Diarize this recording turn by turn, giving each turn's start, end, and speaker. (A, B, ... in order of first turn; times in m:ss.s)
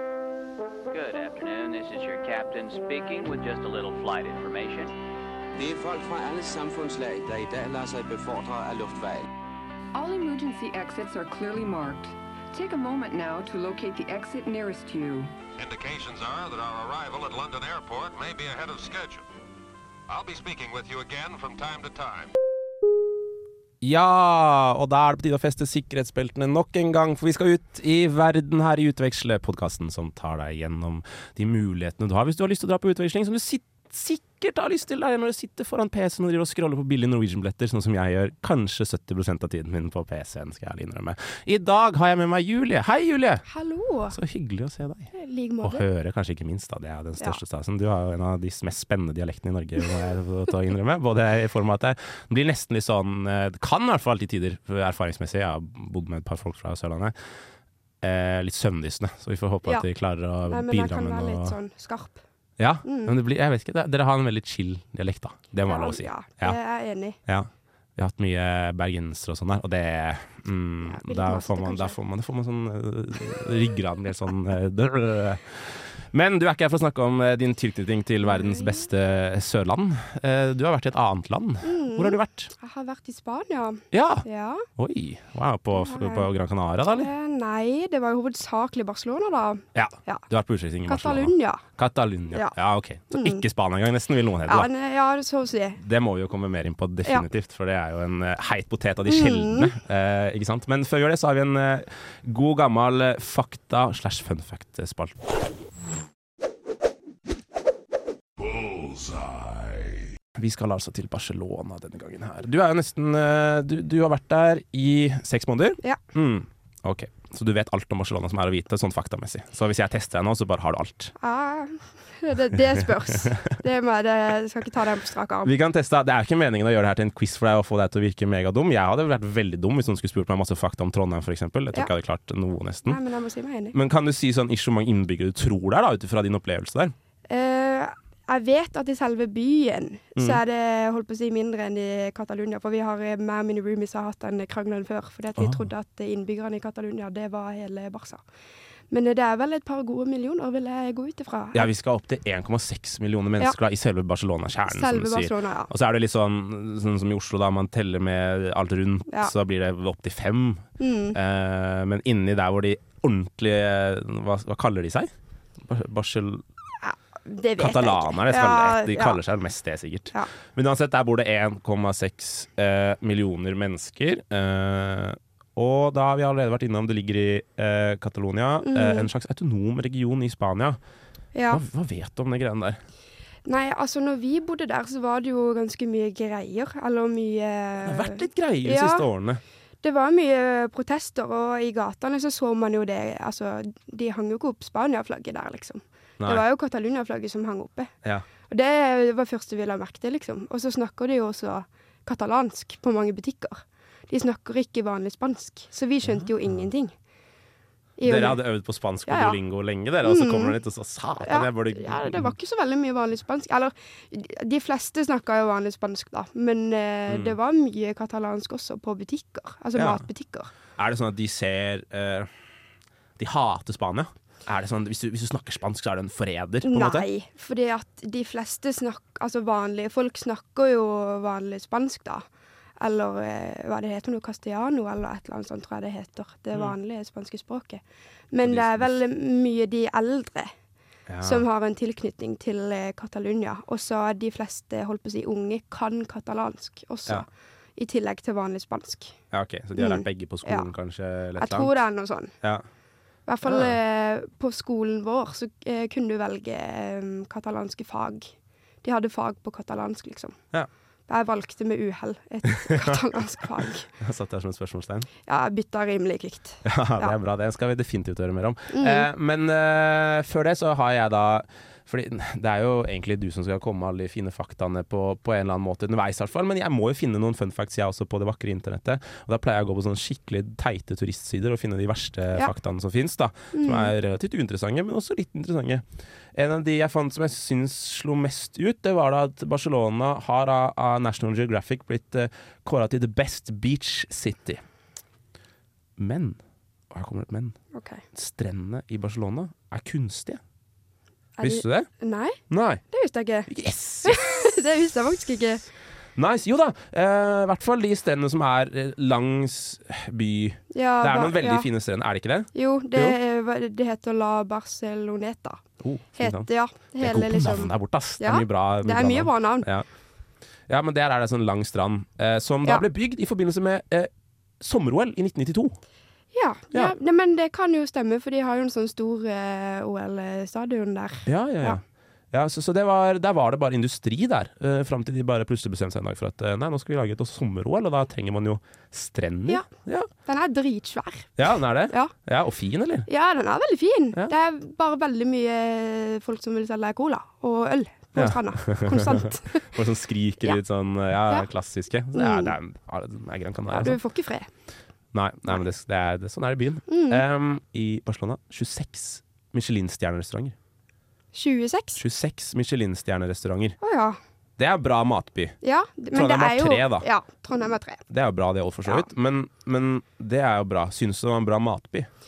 0:00.9-0:04.9 A
0:05.6-0:09.3 B
0:09.9-0:15.3 C
0:15.6-0:19.3 D
0:20.1-0:22.3 D
0:23.8-0:43.4 E
0:43.5-0:44.2 F
0:44.1-0:45.1 E
0:45.1-0:45.8 F
0:45.6-0:57.2 E
0:58.0-1:01.6 E
1:00.5-1:02.2 F
1:02.6-1:06.6 E
1:02.8-1:03.2 F
1:05.6-1:07.2 F
1:07.3-1:22.5 E
1:10.8-1:12.0 F
1:18.3-1:18.8 F
1:21.6-1:24.7 F
1:23.9-1:27.1 E
1:25.7-1:26.3 F
1:27.0-1:30.2 F
1:29.8-1:34.7 E
1:30.9-1:31.6 F
1:33.1-1:33.4 F
1:34.5-1:35.8 F
1:35.8-1:45.4 E
1:39.1-1:39.7 F
1:50.4-2:01.1 E
2:01.2-2:05.5 F
2:02.8-2:03.4 E
2:05.4-2:13.0 E
2:12.9-2:13.8 F
2:13.7-2:16.9 E
2:17.3-2:28.2 F
2:20.2-2:20.4 E
2:25.4-2:25.6 E
2:28.9-2:31.7 F
2:31.5-2:46.4 E
2:34.7-2:35.7 F
2:40.8-2:41.2 F
2:46.8-2:49.2 F
2:47.6-3:00.8 E
2:58.6-2:59.1 F
3:01.3-3:01.6 F
3:01.5-3:02.8 E
3:03.5-3:09.0 F
3:07.8-3:09.4 E
3:09.8-3:17.9 F
3:16.2-3:16.4 E
3:18.5-3:26.9 F
3:26.1-3:26.6 E
3:28.0-3:28.4 F
3:28.0-3:32.3 E
3:29.1-3:29.4 F
3:30.0-3:30.6 F
3:31.2-3:40.5 F
3:37.1-3:37.4 E
3:39.8-3:40.0 E
3:40.8-3:42.3 E
3:43.2-3:47.1 E
3:46.6-3:52.2 F
3:52.8-4:00.5 F
3:58.4-3:58.9 E
4:01.1-4:01.4 E
4:01.2-4:09.2 F
4:09.3-4:11.8 E
4:09.8-4:10.7 F
4:11.4-4:12.3 F
4:13.3-4:18.3 F
4:13.4-4:13.8 E
4:18.8-4:20.4 F
4:21.1-4:23.9 F
4:22.6-4:23.0 E
4:23.6-4:25.1 E
4:25.3-4:27.2 F
4:26.6-4:54.6 E
4:28.7-4:29.1 F
4:43.5-4:43.9 F
4:56.0-4:56.4 E
4:56.9-4:57.6 E
4:57.7-4:58.0 F
4:58.1-5:00.4 E
5:01.4-5:03.5 F
5:01.4-5:01.9 E
5:02.5-5:02.8 E
5:03.5-5:04.5 E
5:04.0-5:05.6 F
5:06.2-5:13.2 E
5:10.7-5:11.7 F
5:12.5-5:15.6 F
5:15.8-5:16.5 E
5:16.2-5:19.7 F
5:17.0-5:19.9 E
5:20.7-5:25.8 E
5:26.3-5:31.8 F
5:31.3-5:40.1 E
5:40.2-5:42.1 F
5:41.4-5:43.1 E
5:43.1-5:49.7 F
5:48.2-5:54.0 E
5:52.1-5:52.6 F
5:53.7-5:54.5 F
5:55.1-6:00.6 E
5:56.9-5:57.2 F
6:01.3-6:02.0 F
6:02.0-6:03.8 E
6:03.8-6:04.2 F
6:04.6-6:05.6 E
6:05.6-6:08.0 F
6:06.1-6:07.1 E
6:08.1-6:12.1 E